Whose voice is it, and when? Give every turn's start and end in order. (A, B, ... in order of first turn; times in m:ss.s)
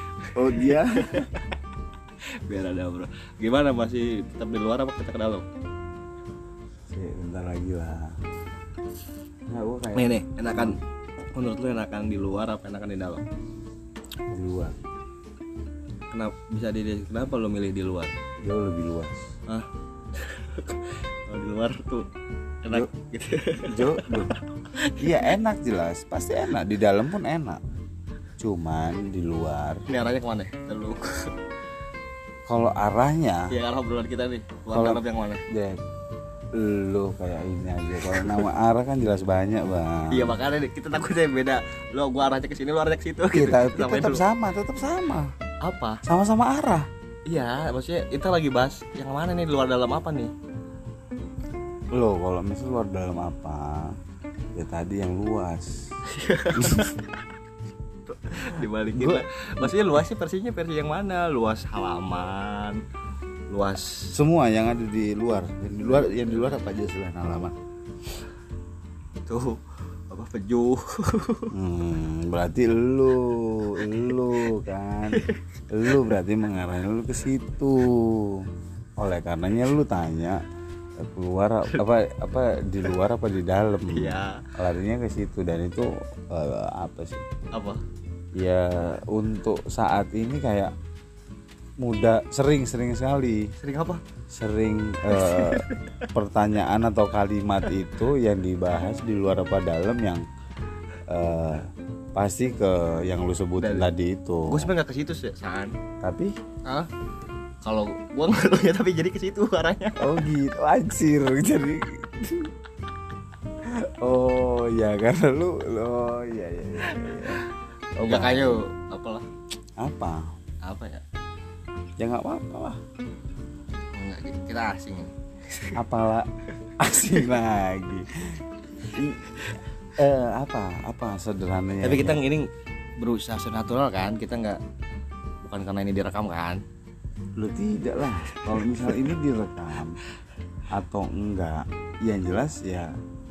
0:00.3-0:01.2 A
0:00.4-0:01.4 B
0:02.2-0:05.4 B
0:06.9-0:08.2 A
0:09.5-0:10.8 A
0:09.9-0:10.8 B
0:11.3-0:13.2 B
0:14.3-0:14.7 A
0:16.1-0:18.1 B
0:18.4-0:19.3 A
0:19.5-0:22.1 B
0:22.6-0:25.3 B
0:23.6-0:24.3 A
0:25.0-0:27.6 A
0:28.4-0:29.8 A
0:29.9-0:31.3 B
0:32.5-0:33.5 A
0:33.5-0:35.4 B
0:34.7-0:35.8 A
0:36.5-0:40.4 A
0:38.0-0:38.5 B
0:40.1-0:44.2 B
0:43.3-0:45.3 A
0:45.6-0:46.0 B
0:46.0-0:46.9 A
0:47.2-0:50.3 B
0:51.9-0:54.0 A
0:54.5-0:55.8 A
0:56.1-0:57.1 B
0:56.6-0:56.9 A
0:58.1-1:02.8 B
0:59.0-0:59.7 A
1:03.5-1:04.2 B
1:04.1-1:07.6 A
1:05.8-1:06.6 B
1:09.2-1:11.5 B
1:11.5-1:20.4 A
1:13.8-1:14.5 B
1:15.1-1:16.1 B
1:21.0-1:27.2 A
1:23.9-1:24.4 B
1:27.5-1:27.8 B
1:28.3-1:30.7 A
1:31.8-1:33.5 A
1:33.6-1:34.0 B
1:34.3-1:40.2 A
1:35.1-1:36.0 B
1:41.1-1:44.7 A
1:43.6-1:43.9 B
1:44.5-1:45.7 B
1:46.0-1:46.3 A
1:47.6-1:50.2 B
1:50.0-1:52.5 A
1:53.6-1:57.4 A
1:56.8-1:59.2 B
1:58.0-1:58.6 A
1:59.8-2:00.2 A
2:00.6-2:01.0 B
2:02.0-2:02.8 A
2:03.9-2:05.8 B
2:05.8-2:12.2 A
2:11.8-2:12.5 B
2:13.0-2:14.6 B
2:15.4-2:16.6 B
2:17.4-2:20.0 A
2:18.4-2:18.8 B
2:20.7-2:22.9 A